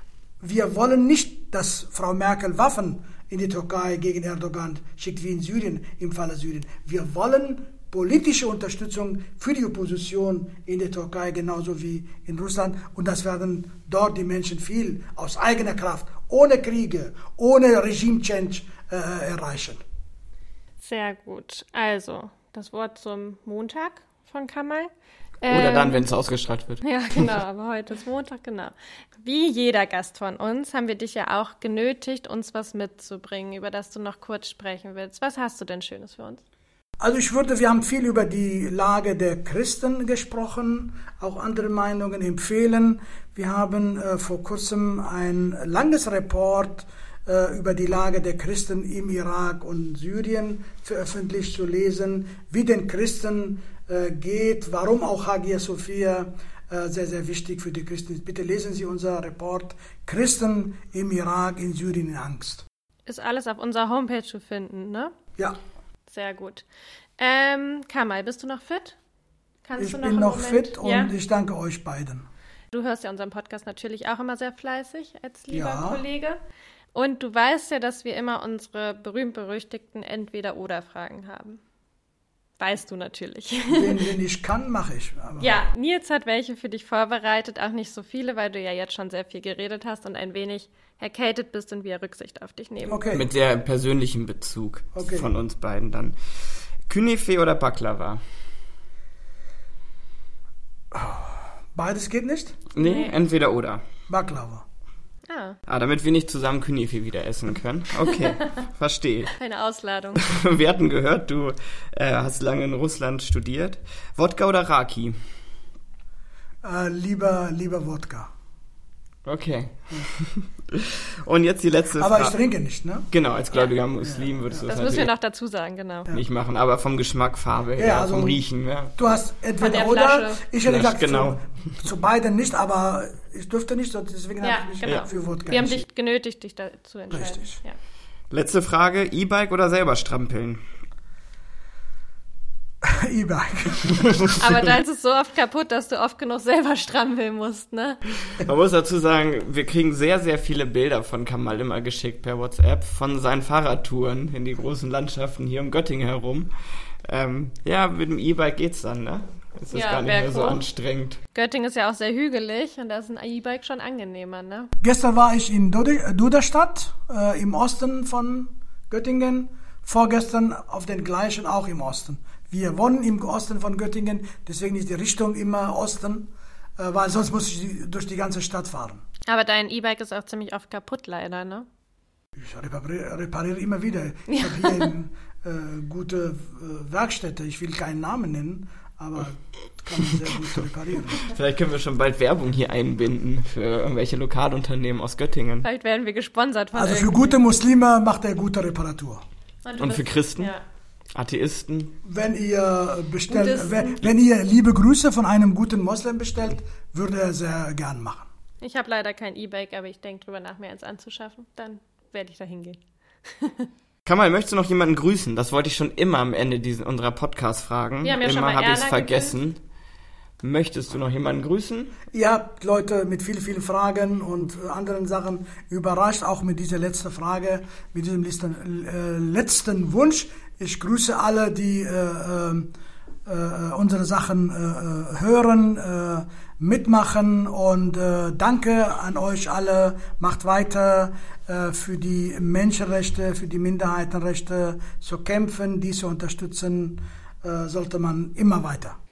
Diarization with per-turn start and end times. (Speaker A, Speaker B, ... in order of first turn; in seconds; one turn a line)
Speaker A: 0.4-19.8
Speaker B: 20.8-24.9
Speaker B: 25.4-26.0
Speaker C: 25.5-27.2
Speaker B: 26.8-36.4
Speaker A: 37.0-62.6
Speaker B: 63.1-65.2
Speaker B: 66.1-66.6
Speaker B: 67.2-69.0
Speaker B: 69.6-71.1
Speaker A: 69.8-72.2
Speaker B: 72.7-76.4
Speaker A: 75.5-76.0
Speaker B: 76.9-81.6
Speaker B: 82.6-84.0
Speaker A: 83.7-85.6
Speaker B: 85.4-93.0
Speaker A: 92.9-93.3
Speaker C: 93.1-96.1
Speaker A: 94.9-95.3
Speaker C: 96.9-98.2
Speaker A: 100.9-102.6
Speaker C: 102.7-103.8
Speaker B: 102.8-103.1
Speaker A: 104.1-104.6
Speaker B: 105.3-105.6
Speaker C: 105.7-109.3
Speaker B: 109.4-110.2
Speaker C: 110.2-115.2
Speaker A: 116.6-118.3
Speaker C: 119.2-122.4
Speaker A: 122.0-123.1
Speaker C: 123.1-125.1
Speaker A: 124.0-124.7
Speaker B: 124.7-126.1
Speaker C: 126.1-129.1
Speaker A: 127.8-128.4
Speaker A: 129.0-135.8
Speaker B: 129.6-130.4
Speaker C: 130.6-131.4
Speaker B: 134.4-137.8
Speaker A: 137.1-137.6
Speaker C: 138.3-140.6
Speaker A: 142.8-144.3
Speaker B: 144.3-148.0
Speaker C: 148.4-156.5
Speaker C: 157.0-161.2
Speaker B: 159.7-160.6
Speaker B: 161.3-164.7
Speaker A: 164.8-179.0
Speaker B: 179.2-181.7
Speaker A: 182.4-191.2
Speaker B: 184.3-184.9
Speaker C: 191.2-195.7
Speaker B: 195.6-197.4
Speaker A: 196.7-199.2
Speaker B: 199.6-200.6
Speaker C: 199.8-200.5
Speaker C: 201.1-201.9
Speaker A: 202.0-208.3
Speaker B: 203.3-204.0
Speaker B: 208.6-213.7
Speaker C: 214.0-219.6
Speaker B: 218.0-219.3
Speaker C: 220.4-221.9
Speaker A: 222.1-232.7
Speaker A: 233.2-249.0